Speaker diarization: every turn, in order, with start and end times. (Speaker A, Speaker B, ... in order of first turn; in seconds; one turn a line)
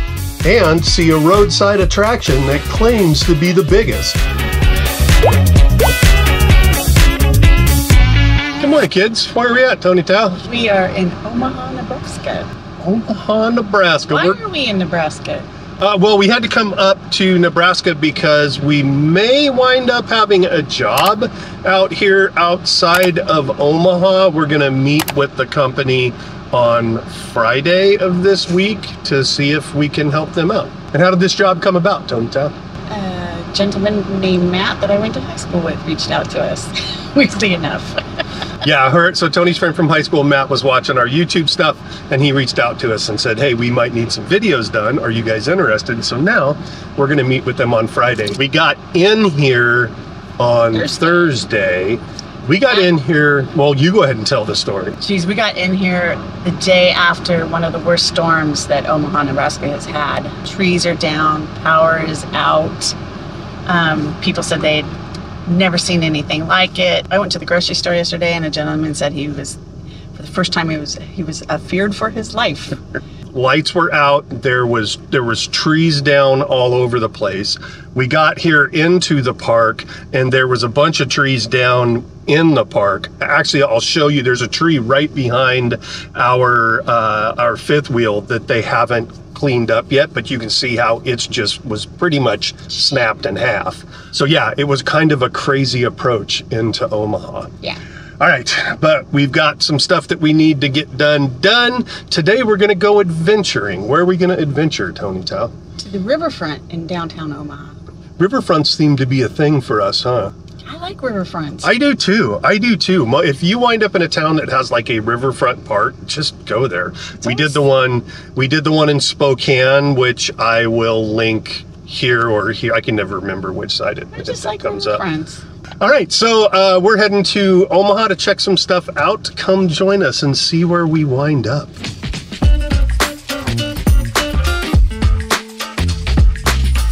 Speaker A: 0.4-4.2
Speaker A: 8.6-10.4
Speaker B: 10.4-12.5
Speaker A: 12.8-14.4
Speaker B: 14.1-15.5
Speaker A: 15.8-32.5
Speaker B: 32.9-38.0
Speaker A: 38.6-55.0
Speaker B: 50.7-51.3
Speaker B: 55.0-62.9
Speaker B: 63.7-64.9
Speaker B: 65.5-69.6
Speaker B: 70.1-72.8
Speaker A: 73.3-97.6
Speaker A: 98.2-105.5
Speaker B: 105.8-107.8
Speaker A: 108.2-110.3
Speaker B: 110.6-111.7
Speaker A: 111.6-125.0
Speaker B: 117.2-117.6
Speaker B: 124.2-125.4
Speaker A: 125.8-131.8